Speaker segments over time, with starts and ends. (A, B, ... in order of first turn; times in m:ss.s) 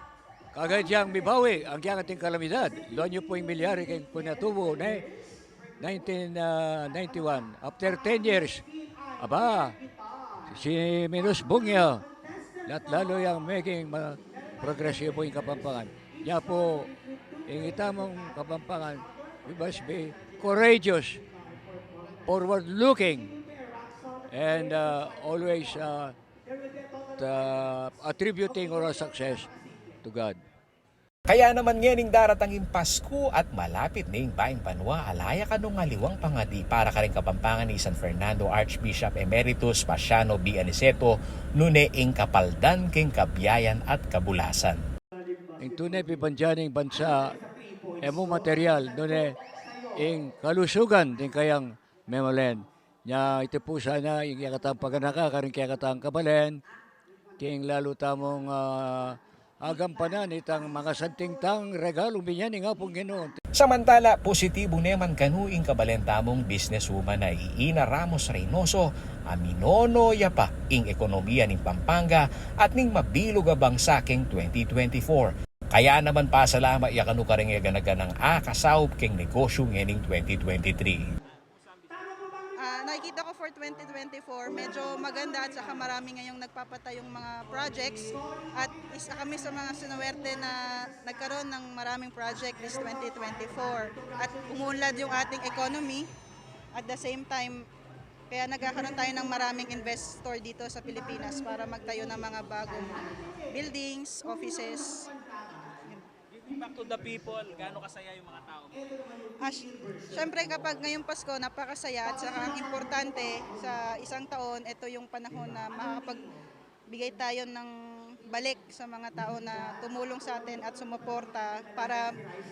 0:00.5-0:05.1 A
0:05.8-0:08.6 A
0:09.2-0:09.8 A
0:10.5-0:12.0 A
0:12.7-0:16.9 A
0:17.5-0:21.2 A
0:22.3-0:23.4 A
0:24.3-0:26.1 A
0:27.2-0:29.5 A
0:30.0-0:30.4 A
0:31.3-0:44.8 B
0:45.6-0:47.3 A
0:48.0-0:49.3 A
0:50.0-0:56.6 A
0:57.4-1:03.4 A
1:03.6-1:21.0 B
1:22.6-1:36.1 C
1:36.7-1:37.6 C
1:38.3-1:45.1 C
1:46.4-1:48.8 D
1:49.4-1:56.3 C
1:56.9-2:02.1 C